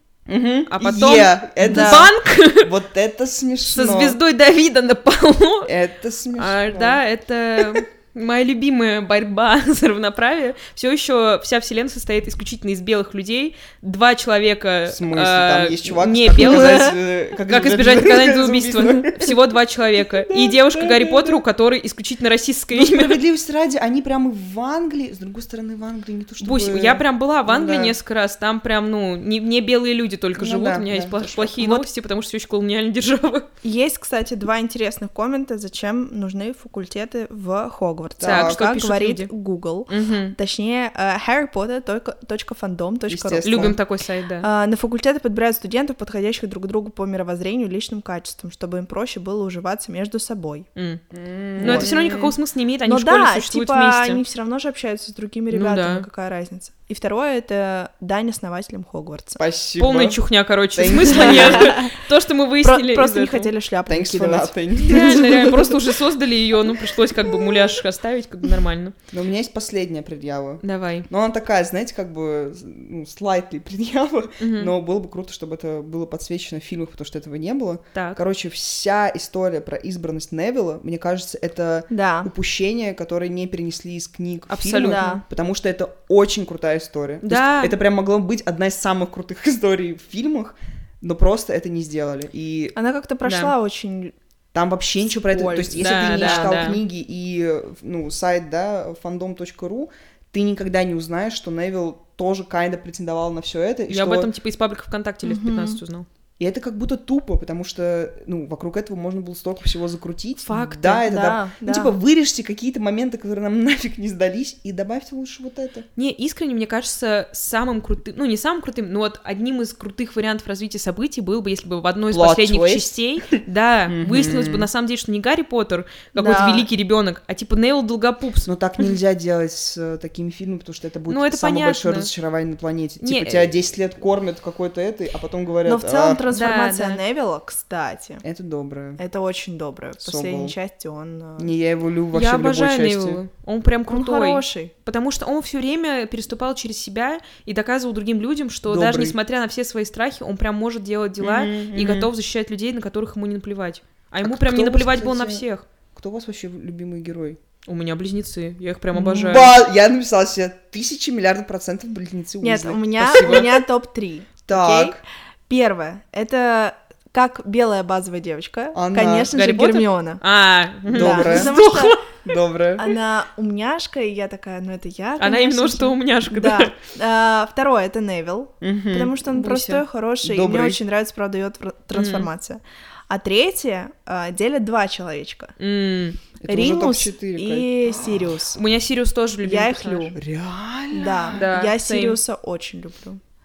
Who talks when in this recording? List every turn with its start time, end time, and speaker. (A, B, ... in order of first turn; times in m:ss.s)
0:00.3-0:04.2 A
0:00.7-0:02.7 B
0:01.6-0:02.1 C
0:03.7-0:05.7 B
0:05.6-0:07.0 A
0:06.4-0:23.2 B
0:07.6-0:07.8 A
0:14.9-0:19.4 A
0:16.4-0:16.8 C
0:20.2-0:21.4 A
0:22.7-0:28.0 A
0:26.4-0:33.5 B
0:30.4-0:31.8 A
0:33.6-0:43.8 C
0:38.2-0:38.6 A
0:38.2-0:39.3 B
0:39.9-0:40.4 B
0:43.1-0:43.8 A
0:43.4-0:44.5 B
0:44.4-0:50.7 C
0:50.8-0:51.0 B
0:51.1-0:52.3 A
0:51.6-0:54.2 B
0:51.6-0:52.0 C
0:52.8-0:59.4 C
0:55.5-0:56.1 B
0:59.4-1:00.2 A
0:59.8-1:03.5 B
1:00.7-1:01.8 A
1:01.1-1:01.9 C
1:02.6-1:05.7 C
1:03.9-1:05.5 A
1:04.8-1:08.9 B
1:09.1-1:32.7 A
1:10.6-1:11.1 B
1:14.4-1:14.7 B
1:17.9-1:18.2 B
1:21.9-1:22.3 C
1:24.5-1:25.2 B
1:24.8-1:25.2 C
1:27.2-1:27.7 B
1:32.7-1:34.1 C
1:33.2-1:33.5 B
1:34.5-1:44.3 A
1:35.3-1:36.7 C
1:35.8-1:36.8 B
1:43.9-1:46.0 B
1:45.2-1:45.8 C
1:46.4-1:55.9 A
1:50.4-1:51.0 B
1:50.9-1:51.9 C
1:56.0-2:08.5 B
2:02.1-2:03.4 A
2:03.9-2:04.7 A
2:06.1-2:06.7 C
2:08.4-2:16.2 A
2:11.1-2:12.1 B
2:13.0-2:13.5 B
2:15.6-2:18.2 C
2:16.3-2:17.0 B
2:18.2-2:19.0 A
2:19.0-2:21.5 C
2:20.0-2:20.5 A
2:21.4-2:23.2 A
2:22.1-2:35.6 B
2:23.9-2:24.7 C
2:28.7-2:29.2 A
2:31.2-2:32.1 A
2:34.2-2:37.4 A
2:37.6-2:39.5 B
2:38.9-2:43.5 A
2:42.4-2:50.2 C
2:43.1-2:43.5 B
2:44.5-2:45.0 A
2:48.7-2:49.3 A
2:49.3-2:52.0 B
2:50.9-2:51.6 A
2:50.9-2:52.0 C
2:52.2-2:52.9 A
2:52.8-3:05.5 C
2:55.2-2:56.7 B
2:58.6-2:59.1 A
2:59.3-2:59.8 B
3:00.2-3:00.8 A
3:01.9-3:02.3 B
3:05.6-3:06.2 B
3:06.4-3:08.3 A
3:06.5-3:08.6 C
3:08.5-3:10.1 B
3:09.4-3:10.2 C
3:10.1-3:11.4 A
3:10.9-3:13.2 C
3:11.3-3:12.2 B